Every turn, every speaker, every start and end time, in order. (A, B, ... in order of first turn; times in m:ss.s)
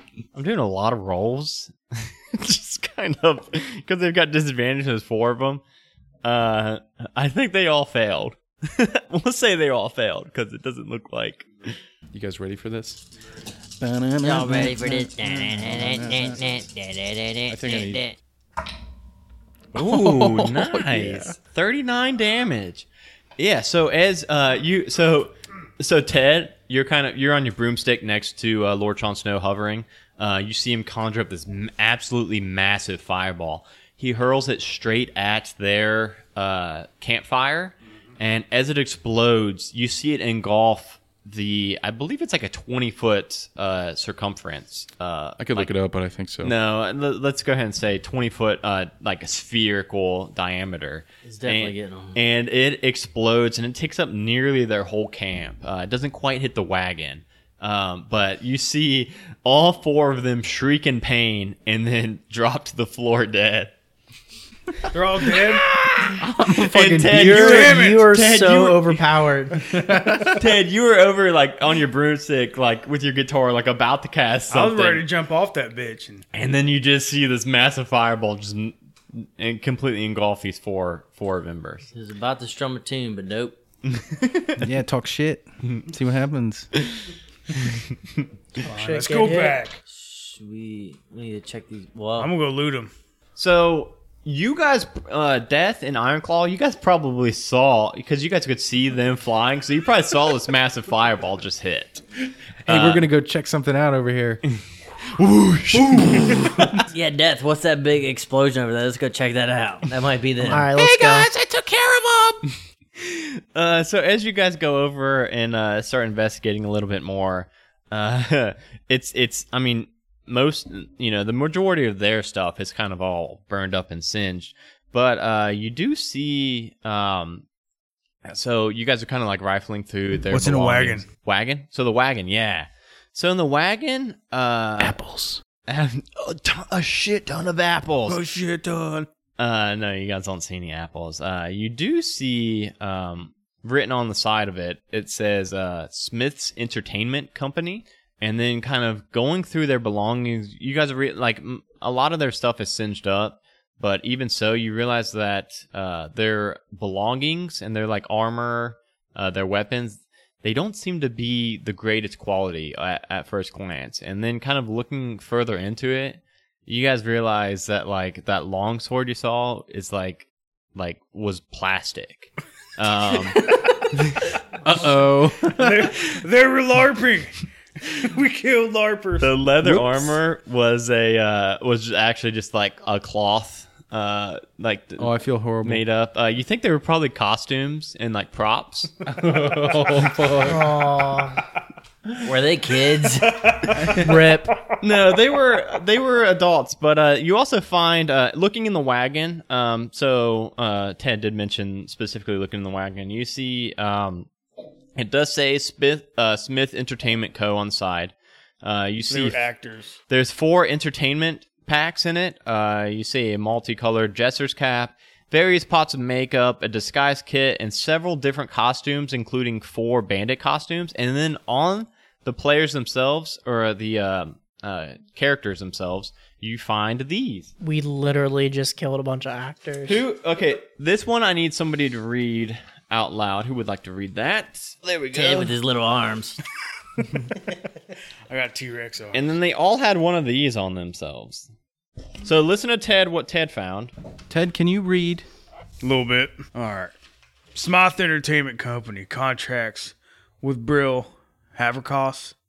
0:00.3-0:05.6 A
0:06.2-0:11.8 A
0:12.1-0:13.1 B
0:13.8-0:16.6 B
0:14.2-0:18.2 C
0:17.5-0:18.1 B
0:19.7-0:22.9 A
0:19.8-0:21.3 B
0:23.4-0:45.7 A
0:45.4-0:46.6 B
0:46.4-1:03.7 A
0:51.2-0:52.2 C
1:04.9-1:05.7 D
1:05.5-1:09.1 A
1:06.0-1:07.5 B
1:07.1-1:09.7 E
1:07.3-1:08.1 D
1:09.7-1:10.4 B
1:10.2-1:15.0 A
1:14.5-1:16.2 D
1:16.3-1:21.9 A
1:21.9-1:23.6 C
1:23.8-1:24.6 A
1:24.6-1:26.7 B
1:28.6-1:29.8 D
1:28.6-1:29.6 E
1:29.9-1:32.3 C
1:32.2-1:32.9 D
1:33.4-1:42.0 A
1:42.6-1:43.1 A
1:42.7-1:44.4 B
1:44.5-1:46.8 A
1:46.0-1:46.7 B
1:46.9-1:50.7 C
1:50.5-1:51.3 E
1:50.7-1:52.4 F
1:53.0-2:07.4 A
2:08.2-2:15.0 A
2:10.3-2:11.1 D
2:14.9-2:15.4 F
2:15.0-2:15.4 B
2:15.7-2:18.2 A
2:18.1-2:19.1 D
2:19.4-2:53.7 A
2:54.6-2:56.0 B
2:55.5-2:59.3 D
2:59.2-3:05.1 A
2:59.6-2:59.9 B
3:05.0-3:05.8 B
3:05.6-3:08.9 A
3:09.1-3:10.7 B
3:10.4-3:11.4 E
3:12.2-3:13.5 C
3:13.4-3:14.0 D
3:13.9-3:14.6 E
3:14.8-3:24.3 A
3:25.0-3:29.4 A
3:29.1-3:30.0 D
3:30.1-3:47.5 A
3:47.6-3:50.0 E
3:49.9-3:55.6 A
3:55.1-3:56.4 C
3:58.3-3:59.4 D
3:59.1-4:01.5 A
4:02.2-4:03.9 A
4:04.3-4:05.3 B
4:05.8-4:07.0 D
4:07.5-4:12.4 D